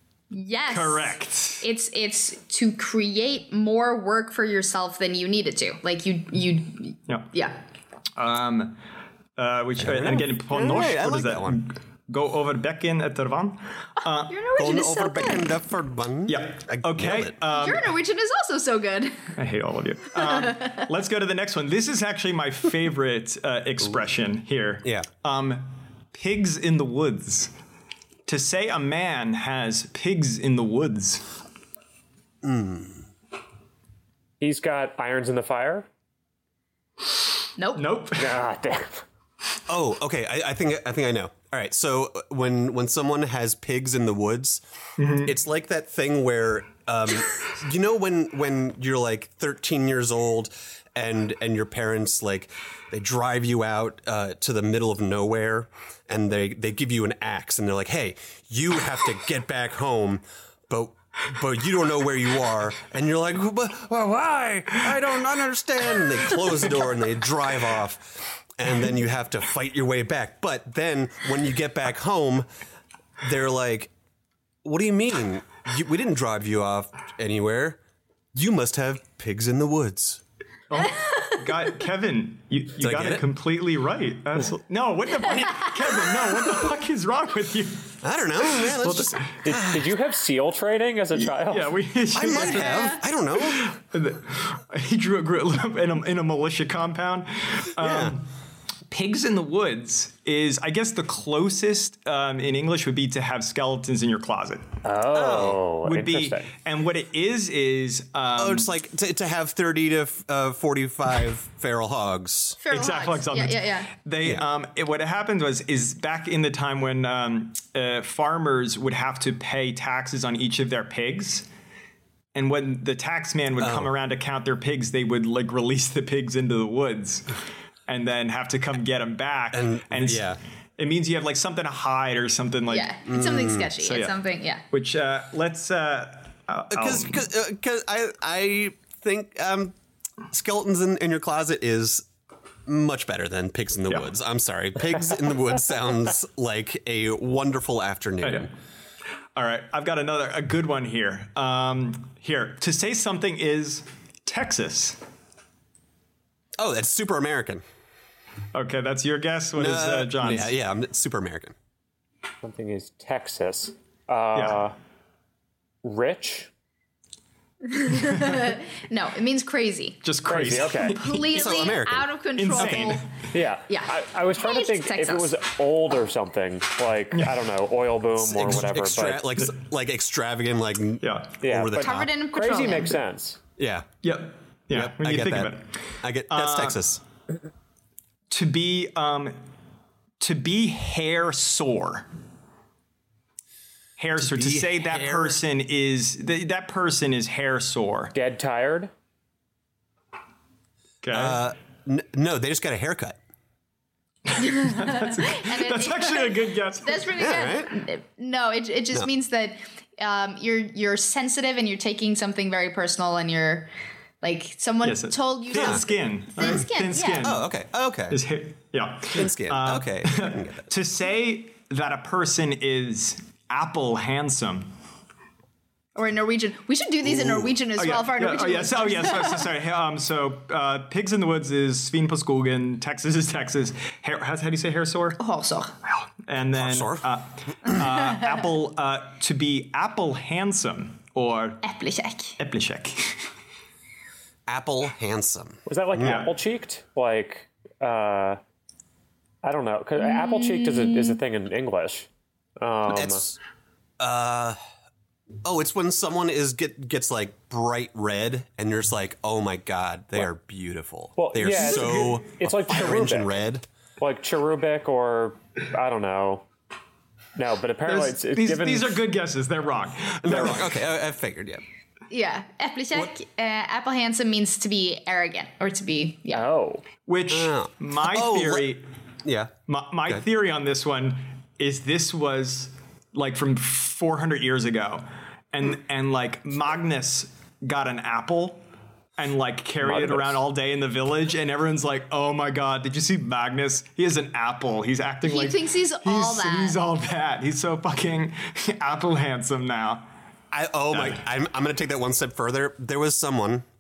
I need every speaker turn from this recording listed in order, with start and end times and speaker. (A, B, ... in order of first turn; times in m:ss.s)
0:00.3-0:07.6 A
0:00.7-0:01.6 B
0:08.2-0:08.8 B
0:09.4-0:14.3 B
0:09.8-0:11.6 C
0:14.2-0:15.5 A
0:14.6-0:17.4 C
0:16.3-0:17.9 B
0:17.5-0:19.3 A
0:19.4-0:27.5 B
0:20.2-0:20.9 A
0:28.3-0:31.3 B
0:32.4-0:33.1 C
0:34.4-0:35.9 D
0:37.6-0:37.9 A
0:37.8-0:38.3 B
0:38.2-0:39.0 D
0:39.7-0:44.6 C
0:45.0-0:45.3 B
0:45.2-1:12.5 C
1:13.2-1:13.9 C
1:14.6-1:17.8 C
1:18.3-1:20.2 C
1:20.7-1:27.9 B
1:20.8-1:21.3 A
1:22.8-1:23.2 C
1:28.0-1:29.9 C
1:28.5-1:29.2 B
1:29.4-1:31.7 D
1:31.3-1:38.3 B
1:32.1-1:33.8 C
1:32.4-1:33.0 A
1:37.8-1:38.2 C
1:38.9-1:44.7 B
1:44.8-1:46.5 D
1:45.1-1:45.6 C
1:45.8-1:48.7 B
1:48.4-1:52.6 C
1:52.6-1:53.9 A
1:52.7-2:01.5 B
2:02.4-2:07.4 B
2:03.6-2:03.9 C
2:07.9-2:12.9 B
2:09.5-2:10.4 C
2:12.7-2:14.6 A
2:13.1-2:13.7 C
2:13.8-2:14.2 B
2:14.7-2:17.2 B
2:16.7-2:19.8 C
2:20.3-2:22.1 C
2:22.7-2:28.5 C
2:28.2-2:28.5 B
2:29.4-2:35.0 B
2:36.6-2:37.6 C
2:38.5-2:40.5 B
2:39.6-2:41.6 C
2:42.4-2:44.7 D
2:44.4-2:44.6 B
2:45.8-2:46.5 D
2:47.7-2:50.0 A
2:50.0-2:51.7 B
2:50.3-2:51.0 D
2:50.9-2:53.0 A
2:51.3-2:53.0 C
2:52.4-2:53.1 B
2:53.3-2:59.4 D
2:53.7-2:55.4 A
2:57.1-2:57.4 B
2:58.1-3:02.1 C
3:01.0-3:01.3 B
3:01.4-3:03.4 D
3:01.8-3:03.0 A
3:03.6-3:03.9 C
3:04.0-3:05.7 B
3:04.7-3:07.0 C
3:06.3-3:06.8 B
3:08.3-3:09.4 B
3:10.2-3:12.1 B
3:14.0-3:18.1 B
3:14.2-3:15.4 C
3:18.1-3:18.9 D
3:21.0-3:21.4 B
3:21.1-3:23.2 C
3:24.3-3:27.2 B
3:24.4-3:33.7 A
3:27.2-3:27.7 C
3:34.2-3:37.3 A
3:34.8-3:37.4 B
3:35.5-3:35.8 C
3:37.2-3:38.2 C
3:38.1-3:44.7 B
3:39.1-3:40.7 C
3:46.0-3:49.5 A
3:47.0-3:47.6 C
3:47.8-3:55.2 B
3:55.2-3:55.7 A
3:55.8-4:01.6 B
3:56.6-3:57.1 C
4:01.6-4:02.4 A
4:02.4-4:03.3 B
4:04.5-4:06.2 C
4:05.7-4:08.4 D
4:06.0-4:06.3 B
4:09.4-4:12.1 D
4:10.0-4:11.2 A
4:12.6-4:13.2 D
4:12.9-4:13.4 C
4:14.0-4:14.6 C
4:15.4-4:23.6 C
4:21.2-4:23.3 D
4:21.6-4:21.9 B
4:24.0-4:26.5 D
4:27.4-4:29.0 D
4:27.9-4:30.8 B
4:30.2-4:31.6 C
4:32.1-4:36.4 A
4:36.3-4:36.8 D
4:37.1-4:38.9 B
4:37.3-4:38.7 C
4:39.2-4:39.5 C
4:39.7-4:48.6 B
4:49.2-5:00.1 B
4:49.8-4:50.4 D
4:55.2-4:56.8 A
5:00.5-5:03.6 C
5:00.9-5:01.2 B